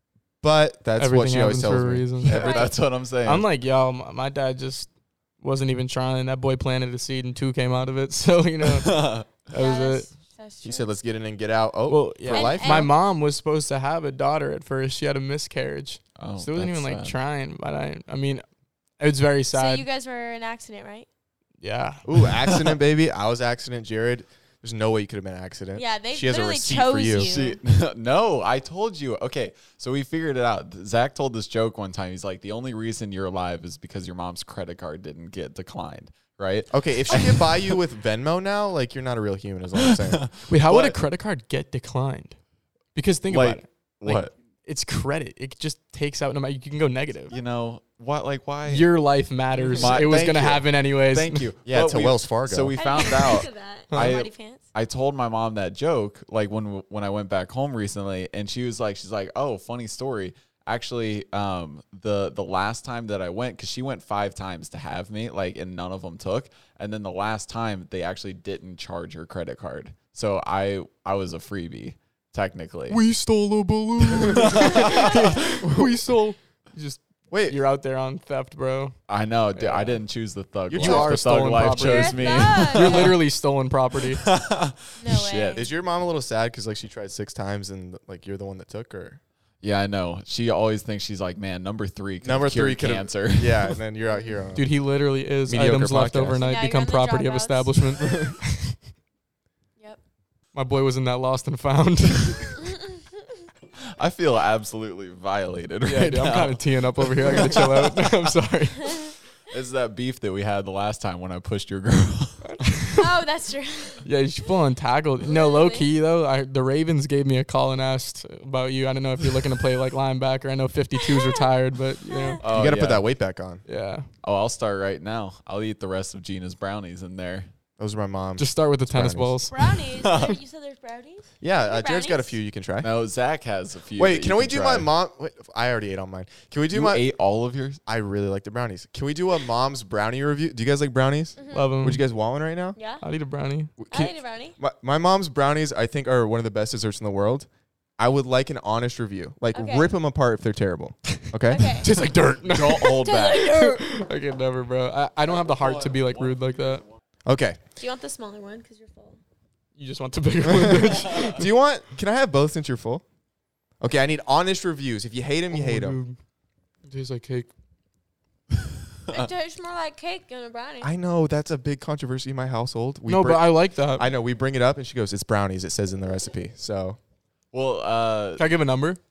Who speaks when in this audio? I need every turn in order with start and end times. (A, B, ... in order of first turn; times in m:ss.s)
0:00.4-0:02.4 A
0:01.0-0:02.7 B
0:02.2-0:03.4 C
0:02.2-0:02.7 D
0:03.2-0:04.9 B
0:05.4-0:10.1 B
0:08.6-0:09.3 C
0:09.5-0:10.9 D
0:10.6-0:12.9 A
0:11.9-0:18.4 B
0:12.3-0:12.9 D
0:16.2-0:17.1 C
0:19.0-0:19.8 B
0:19.5-0:21.1 D
0:21.6-0:22.0 B
0:22.0-0:27.3 A
0:22.5-0:22.8 C
0:25.7-0:27.6 D
0:27.2-0:37.8 C
0:36.7-0:40.3 A
0:39.8-0:41.0 C
0:40.5-0:42.4 B
0:42.9-0:47.3 B
0:43.3-0:44.3 C
0:47.3-0:48.9 C
0:48.7-0:51.5 B
0:49.6-1:13.0 C
0:49.8-0:50.6 A
0:51.6-0:52.7 A
0:52.8-0:54.6 D
0:53.9-0:54.2 B
1:12.9-1:19.0 B
1:14.2-1:15.7 C
1:17.3-1:17.6 A
1:19.1-1:23.2 C
1:19.6-1:20.0 B
1:20.7-1:21.4 A
1:20.8-1:24.2 B
1:21.7-1:23.2 D
1:24.1-1:25.6 C
1:25.0-1:25.7 D
1:25.5-1:29.2 A
1:29.6-1:33.8 C
1:32.2-1:34.7 A
1:34.1-1:34.4 D
1:34.6-1:38.8 B
1:35.5-1:36.4 A
1:36.4-1:38.3 D
1:40.5-1:42.6 B
1:42.6-1:43.2 D
1:43.9-1:48.1 C
1:45.8-1:49.0 B
1:48.8-1:49.1 D
1:49.5-1:52.5 C
1:52.4-1:53.0 B
1:53.0-1:54.0 D
1:54.0-2:02.4 B
1:55.2-1:55.9 D
2:02.1-2:02.4 D
2:02.4-2:03.0 C
2:02.4-2:03.6 A
2:03.6-2:04.1 B
2:04.2-2:07.5 C
2:07.8-2:09.4 A
2:08.4-2:09.6 B
2:09.5-2:12.3 D
2:09.9-2:10.4 C
2:11.4-2:12.9 A
2:12.8-2:14.9 C
2:14.0-2:17.0 A
2:16.7-2:17.8 C
2:17.8-2:22.8 A
2:21.4-2:21.7 D
2:21.5-2:22.0 B
2:22.8-2:23.0 D
2:23.0-2:23.7 B
2:23.8-2:27.5 A
2:23.9-2:24.6 D
2:28.0-2:31.8 A
2:29.5-2:29.9 D
2:31.5-2:31.9 D
2:31.7-2:36.8 B
2:32.4-2:33.5 C
2:33.0-2:33.8 D
2:37.2-2:37.6 A
2:37.8-2:39.2 D
2:39.8-2:41.5 B
2:40.4-2:43.0 A
2:43.8-2:46.0 A
2:45.5-2:46.2 B
2:46.8-2:47.5 B
2:49.1-2:50.9 D
2:50.8-2:57.0 A
2:53.1-2:54.1 B
2:57.5-2:58.4 C
2:58.4-2:59.0 B